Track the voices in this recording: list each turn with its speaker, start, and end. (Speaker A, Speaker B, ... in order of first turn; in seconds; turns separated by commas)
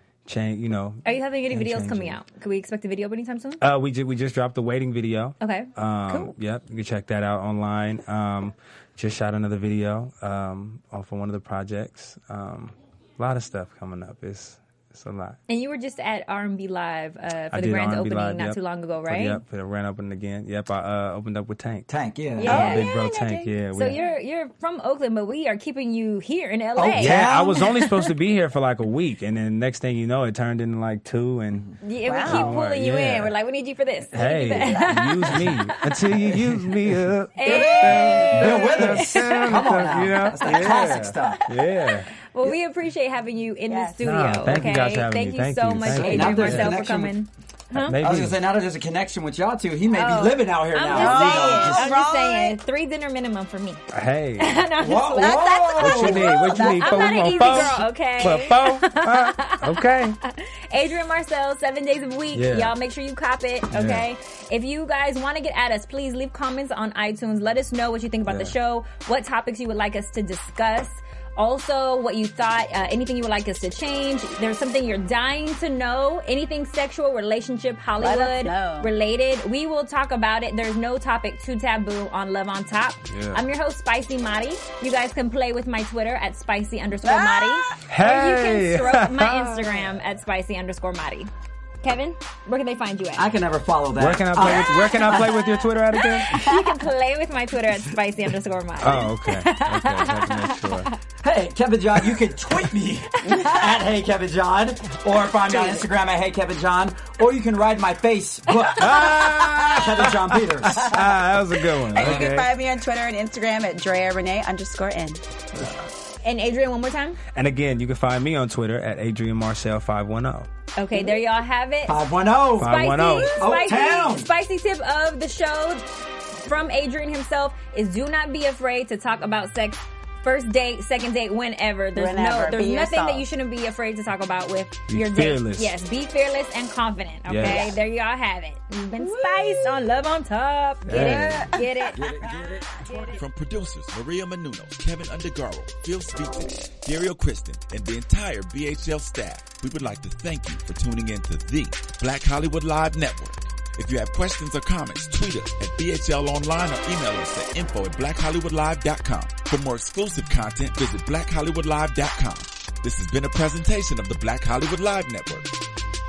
Speaker A: 0.2-2.2, Speaker B: 1.0-3.6, Speaker A: 3.6-15.4, Speaker B: 5.4-6.3, Speaker B: 15.5-19.4, Speaker A: 17.5-21.9, Speaker C: 21.9-22.8, Speaker B: 22.4-27.9, Speaker A: 22.4-24.0, Speaker D: 22.4-23.5, Speaker C: 26.8-27.6, Speaker A: 27.0-33.3, Speaker B: 31.8-36.0, Speaker D: 32.0-32.6, Speaker A: 34.1-42.1, Speaker D: 34.2-35.2, Speaker B: 37.3-39.7, Speaker D: 37.4-38.6, Speaker C: 38.3-41.5, Speaker B: 42.3-48.0, Speaker D: 43.7-44.0, Speaker A: 44.0-46.8, Speaker C: 45.8-47.2, Speaker A: 47.8-48.4, Speaker C: 48.0-51.9, Speaker B: 49.9-53.8, Speaker D: 50.9-52.6, Speaker A: 53.9-54.6, Speaker B: 54.4-91.3, Speaker C: 54.8-56.4, Speaker D: 55.1-57.8, Speaker A: 55.8-60.2, Speaker A: 62.3-62.7, Speaker A: 63.7-64.0, Speaker A: 68.3-68.5, Speaker D: 78.0-78.9, Speaker A: 83.1-83.4, Speaker D: 87.0-87.7, Speaker A: 87.9-89.8, Speaker B: 91.8-93.3, Speaker C: 93.2-95.4, Speaker A: 94.0-96.3, Speaker B: 94.4-95.3, Speaker B: 95.9-101.0, Speaker D: 96.2-96.8, Speaker A: 98.8-100.9, Speaker C: 101.2-111.0, Speaker B: 103.2-103.8, Speaker D: 103.2-103.6, Speaker D: 105.5-105.9, Speaker A: 108.7-112.5, Speaker D: 110.7-111.0, Speaker D: 111.9-115.2, Speaker C: 111.9-112.3, Speaker A: 115.6-115.8, Speaker B: 116.2-117.2, Speaker A: 117.3-120.5, Speaker B: 120.8-122.0, Speaker C: 121.8-124.3, Speaker B: 122.5-125.9, Speaker A: 122.6-123.4, Speaker B: 126.4-142.1, Speaker D: 131.9-133.3, Speaker A: 134.9-135.7, Speaker A: 137.3-137.7, Speaker D: 137.4-137.8, Speaker D: 139.0-139.9, Speaker A: 140.9-141.5, Speaker D: 140.9-143.2, Speaker C: 141.9-143.0, Speaker E: 143.0-165.5